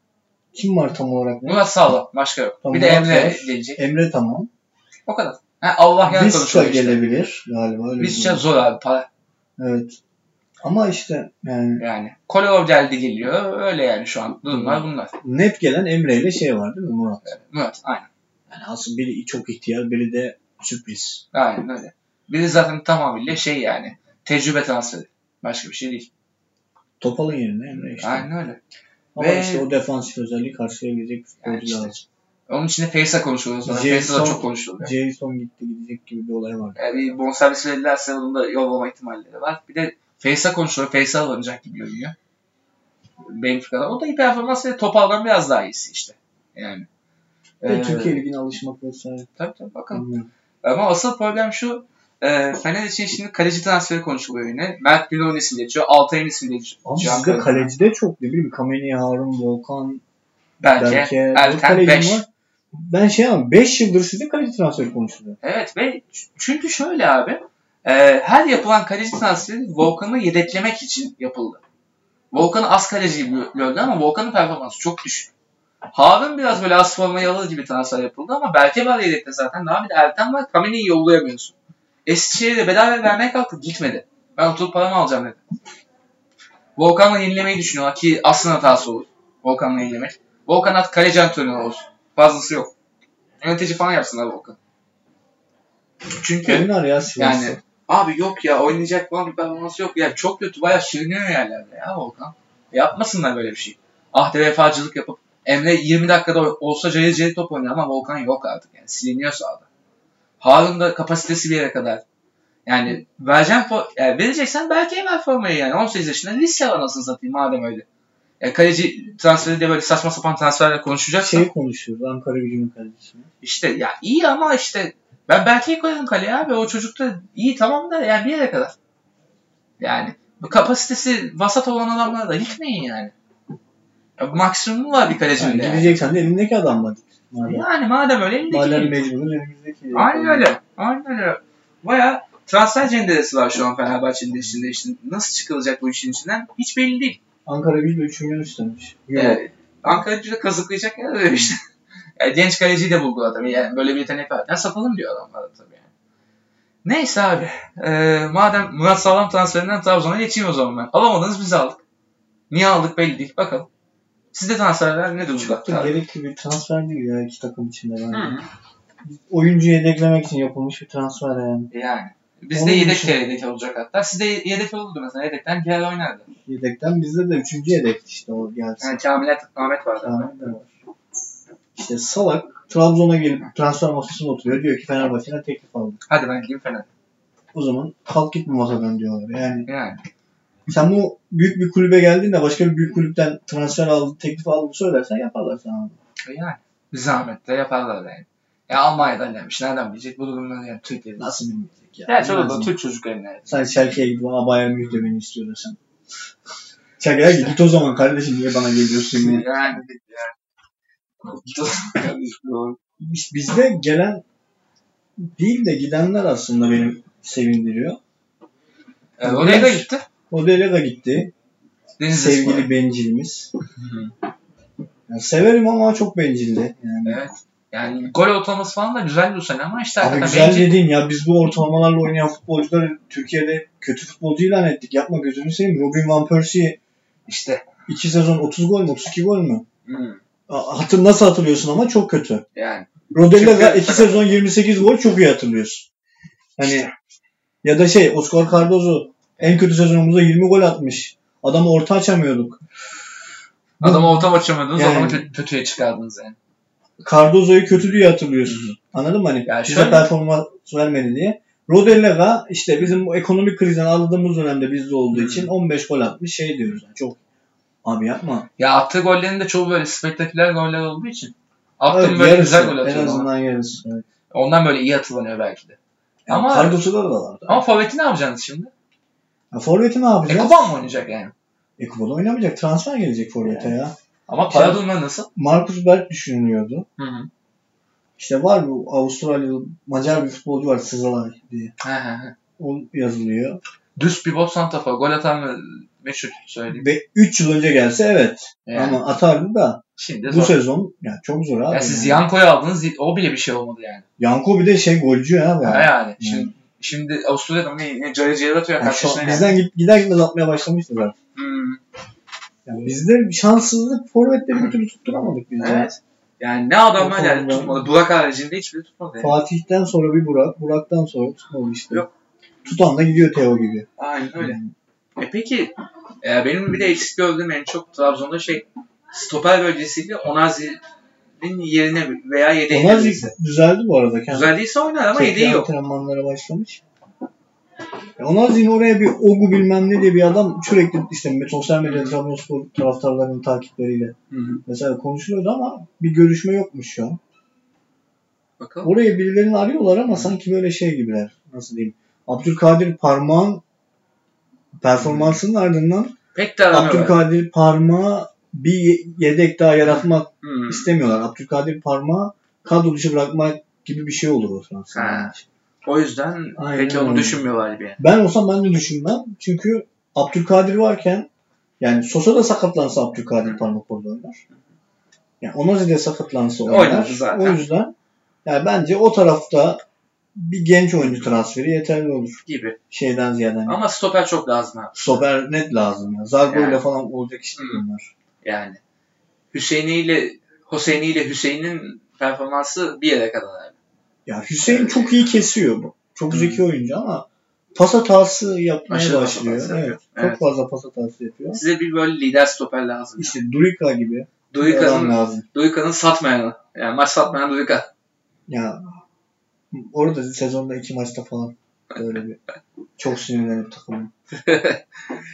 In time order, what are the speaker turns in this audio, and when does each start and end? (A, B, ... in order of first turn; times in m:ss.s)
0:00.5-0:01.6 A
0:01.4-0:03.8 B
0:02.6-0:04.5 A
0:05.1-0:07.0 B
0:06.1-0:08.4 A
0:08.0-0:09.1 B
0:09.6-0:10.0 A
0:10.6-0:11.8 A
0:11.8-0:15.1 B
0:14.5-0:17.3 A
0:17.2-0:18.1 B
0:18.5-0:21.2 A
0:21.3-0:26.1 B
0:27.0-0:28.3 A
0:28.0-0:28.6 B
0:29.2-0:32.0 A
0:29.2-0:29.7 B
0:31.4-0:34.9 B
0:33.7-0:37.1 A
0:36.8-0:42.2 B
0:43.3-0:46.9 B
0:47.6-0:48.2 B
0:47.6-0:49.3 A
0:49.4-0:50.1 B
0:49.9-0:50.3 A
0:50.6-0:57.7 B
0:56.8-1:00.0 A
1:00.6-1:02.2 B
1:00.8-1:05.4 A
1:05.4-1:11.6 B
1:12.3-1:15.3 B
1:15.9-1:21.6 B
1:22.1-1:25.4 B
1:26.8-1:32.7 B
1:33.4-1:34.6 B
1:36.2-1:49.7 B
1:36.4-1:37.6 A
1:50.4-1:52.0 B
1:52.7-1:57.9 B
1:58.4-2:01.5 B
2:01.2-2:03.3 A
2:03.4-2:08.8 B
2:09.8-2:13.1 B
2:14.2-2:16.0 B
2:15.4-2:17.6 A
2:17.4-2:19.1 B
2:18.5-2:20.5 A
2:19.9-2:27.2 B
2:27.5-2:29.4 A
2:29.1-2:31.6 B
2:32.2-2:35.9 B
2:36.8-2:41.8 B
2:42.5-2:43.7 B
2:44.3-2:46.0 B
2:45.3-2:48.4 A
2:48.1-2:48.5 B
2:49.0-2:51.7 A
2:51.7-2:56.3 B
2:52.5-2:53.2 A
2:56.5-2:59.0 A
2:58.8-3:00.3 B
3:00.0-3:00.7 A
3:01.8-3:06.0 A
3:06.1-3:06.9 B
3:07.5-3:09.7 A
3:09.7-3:10.0 B
3:10.7-3:16.0 A
3:16.2-3:21.3 B
3:21.2-3:22.7 A
3:22.1-3:23.6 B
3:23.5-3:25.8 A
3:27.0-3:29.7 A
3:27.3-3:27.5 B
3:29.2-3:30.3 B
3:31.3-3:32.8 B
3:33.0-3:34.2 A
3:35.2-3:38.0 A
3:39.2-3:40.0 B
3:39.2-3:41.3 A
3:42.0-3:42.7 B
3:42.1-3:43.5 A
3:43.8-3:44.1 B
3:45.1-3:47.2 A
3:47.0-3:50.8 B
3:50.0-3:56.8 A
3:57.3-3:57.6 B
3:57.9-3:59.6 A
3:59.9-4:00.2 B
4:00.5-4:02.4 A
4:02.6-4:04.3 B
4:03.1-4:05.9 A
4:06.6-4:06.9 A
4:06.6-4:06.9 B
4:07.6-4:12.6 A
4:13.8-4:15.2 A
4:13.8-4:16.4 B
4:17.0-4:27.2 A
4:18.5-4:18.7 B
4:19.4-4:20.1 B
4:25.1-4:25.5 B
4:27.8-4:28.5 A
4:28.6-4:33.3 B
4:31.9-4:34.0 A
4:34.3-4:35.8 B
4:36.3-4:37.6 A
4:36.3-4:36.8 B
4:37.5-4:38.7 B
4:39.5-4:40.7 A
4:40.3-4:41.3 B
4:41.8-4:44.0 A
4:44.3-4:45.3 B
4:44.5-4:44.8 A
4:45.4-4:46.9 A
4:47.0-4:47.3 B
4:48.2-4:51.7 A
4:51.8-4:52.4 B
4:52.6-4:53.6 A
4:54.0-4:56.9 B
4:56.7-5:02.2 A
4:58.7-4:59.0 B
5:00.0-5:00.6 B
5:01.7-5:04.0 B
5:04.2-5:06.5 A
5:05.6-5:09.6 B
5:08.8-5:11.2 A
5:11.4-5:11.8 B
5:12.7-5:15.9 A
5:15.6-5:19.4 B
5:17.0-5:17.8 A
5:19.2-5:22.0 A
5:22.6-5:24.7 A
5:24.0-5:24.6 B
5:25.2-5:30.8 B
5:31.4-5:33.3 B
5:32.7-5:34.5 A
5:34.3-5:35.7 B
5:35.1-5:36.8 A
5:38.2-5:47.2 A
5:41.8-5:42.2 B
5:44.3-5:44.6 B
5:48.6-5:48.9 B
5:48.8-5:53.6 A
5:54.8-5:56.2 A
5:55.0-5:55.4 B
5:56.4-5:57.2 B
5:56.7-6:05.4 A
5:59.8-6:00.9 B
6:04.9-6:05.3 B
6:05.8-6:08.0 B
6:06.6-6:07.4 A
6:08.0-6:11.3 A
6:11.8-6:14.4 A
6:15.4-6:17.9 A
6:16.6-6:17.6 B
6:18.4-6:19.8 A
6:20.4-6:22.4 A
6:22.5-6:22.8 B
6:22.9-6:23.8 A
6:23.7-6:25.2 B
6:24.9-6:28.1 A
6:26.4-6:26.8 B
6:27.6-6:27.8 B
6:28.4-6:28.8 B
6:29.5-6:33.8 B
6:34.3-6:41.6 A
6:34.6-6:35.1 B
6:36.3-6:36.6 B
6:38.9-6:40.4 B
6:41.5-6:43.4 B
6:43.2-6:45.4 A
6:44.5-6:47.9 B
6:48.5-6:48.8 A
6:49.7-6:52.4 A
6:53.0-6:54.1 A
6:54.4-6:54.8 B